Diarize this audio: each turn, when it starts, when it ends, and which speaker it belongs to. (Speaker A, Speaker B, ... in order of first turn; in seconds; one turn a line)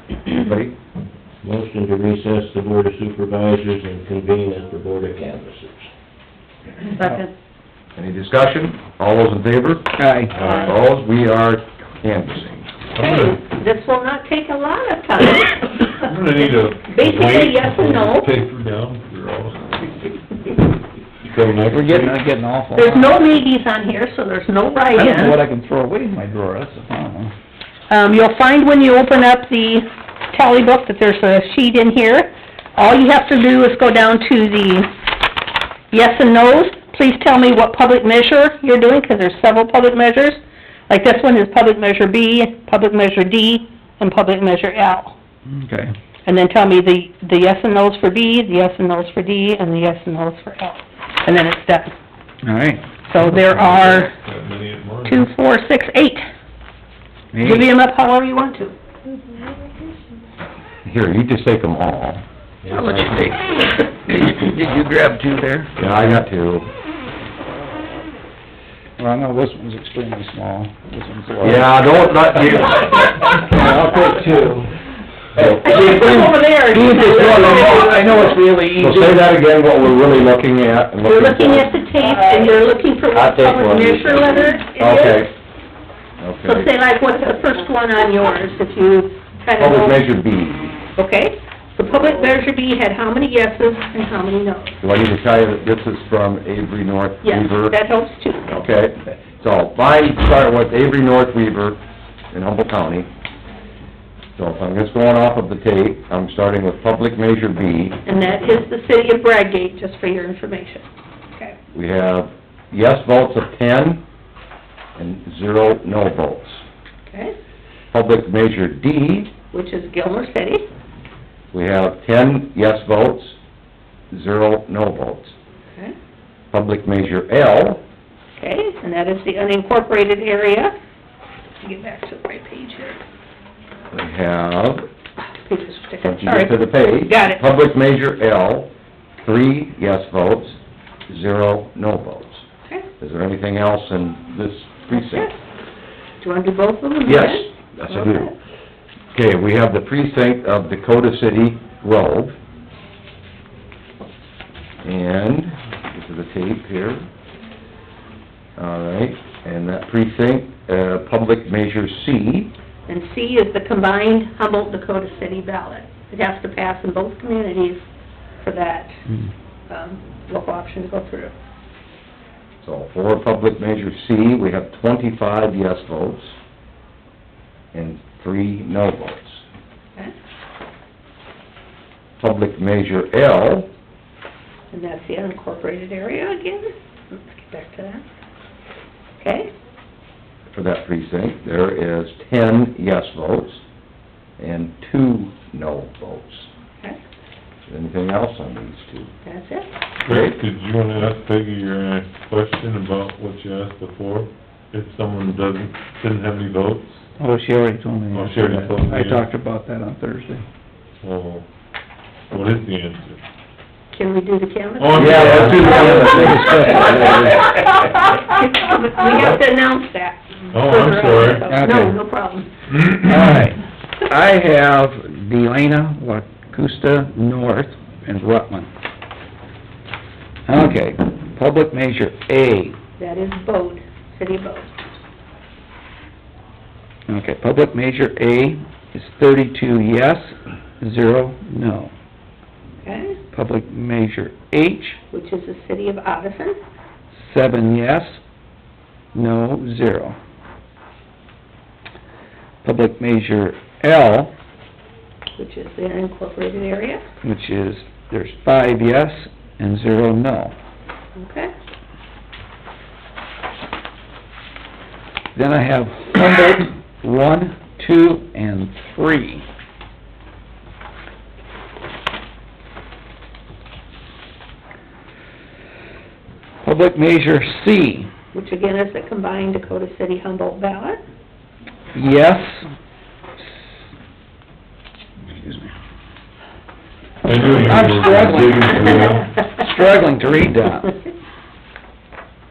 Speaker A: 0.3-0.8
Speaker B: 1.4-5.7
Speaker C: 7.0-7.3
Speaker A: 8.0-10.0
Speaker D: 10.0-10.3
Speaker E: 10.3-10.8
Speaker A: 10.5-12.7
Speaker E: 12.9-13.4
Speaker C: 13.0-18.3
Speaker E: 16.0-20.1
Speaker E: 21.2-22.2
Speaker D: 21.7-23.2
Speaker C: 22.8-25.4
Speaker D: 24.9-27.3
Speaker C: 27.9-34.9
Speaker C: 35.9-45.1
Speaker D: 45.5-45.9
Speaker C: 46.2-51.9
Speaker D: 52.4-52.9
Speaker C: 53.1-54.1
Speaker E: 53.5-55.3
Speaker C: 55.1-56.2
Speaker D: 57.3-57.7
Speaker C: 57.4-58.8
Speaker A: 60.9-62.2
Speaker D: 62.7-66.2
Speaker A: 62.8-63.1
Speaker A: 65.8-66.7
Speaker D: 69.0-71.8
Speaker A: 71.4-73.5
Speaker D: 73.2-74.7
Speaker A: 75.4-76.3
Speaker D: 75.4-79.2
Speaker C: 75.6-78.3
Speaker A: 77.2-77.8
Speaker A: 78.8-81.7
Speaker C: 81.0-85.3
Speaker A: 83.1-85.3
Speaker A: 86.2-86.7
Speaker C: 86.5-90.0
Speaker A: 89.6-90.8
Speaker C: 91.0-94.8
Speaker A: 94.8-97.8
Speaker C: 97.2-98.5
Speaker A: 98.5-103.1
Speaker A: 104.4-108.0
Speaker C: 108.1-111.6
Speaker A: 111.7-114.0
Speaker A: 115.0-116.6
Speaker C: 117.1-117.3
Speaker A: 117.9-119.3
Speaker C: 119.5-120.7
Speaker A: 121.5-123.4
Speaker A: 124.1-125.3
Speaker A: 126.5-127.8
Speaker C: 128.4-130.7
Speaker C: 131.6-133.0
Speaker A: 133.9-134.8
Speaker C: 135.2-137.4
Speaker A: 136.0-138.7
Speaker A: 139.2-142.4
Speaker A: 143.0-145.3
Speaker C: 144.9-145.4
Speaker C: 146.2-148.3
Speaker A: 147.1-148.3
Speaker A: 149.1-152.4
Speaker A: 154.8-157.1
Speaker A: 158.6-162.5
Speaker C: 162.9-167.8
Speaker C: 168.4-169.0
Speaker C: 169.7-171.3
Speaker A: 172.6-176.4
Speaker A: 177.7-179.4
Speaker A: 182.2-183.7
Speaker C: 184.7-188.0
Speaker C: 189.2-189.5
Speaker A: 190.5-193.6
Speaker A: 194.4-196.5
Speaker A: 197.7-199.1
Speaker C: 199.2-199.7
Speaker E: 200.1-207.1
Speaker A: 200.1-200.4
Speaker D: 207.2-210.4
Speaker E: 208.1-209.2
Speaker E: 211.0-211.4
Speaker E: 212.3-213.2
Speaker C: 213.9-222.5
Speaker E: 214.8-216.5
Speaker A: 214.9-217.5
Speaker D: 215.6-217.4
Speaker E: 220.5-221.5
Speaker D: 221.5-222.0
Speaker E: 222.7-223.4
Speaker D: 223.1-228.7
Speaker D: 230.5-232.8
Speaker C: 233.0-234.7
Speaker D: 237.1-241.9
Speaker C: 242.8-243.2
Speaker D: 243.3-245.0
Speaker C: 245.1-246.6
Speaker D: 247.1-248.2
Speaker D: 249.2-250.2
Speaker D: 252.6-254.3
Speaker C: 255.4-257.0
Speaker D: 257.2-260.6
Speaker C: 261.2-261.5
Speaker D: 265.4-269.4
Speaker D: 276.6-278.1
Speaker C: 278.3-281.0
Speaker D: 281.9-282.7
Speaker D: 285.2-285.7
Speaker E: 287.2-289.3
Speaker D: 287.6-291.0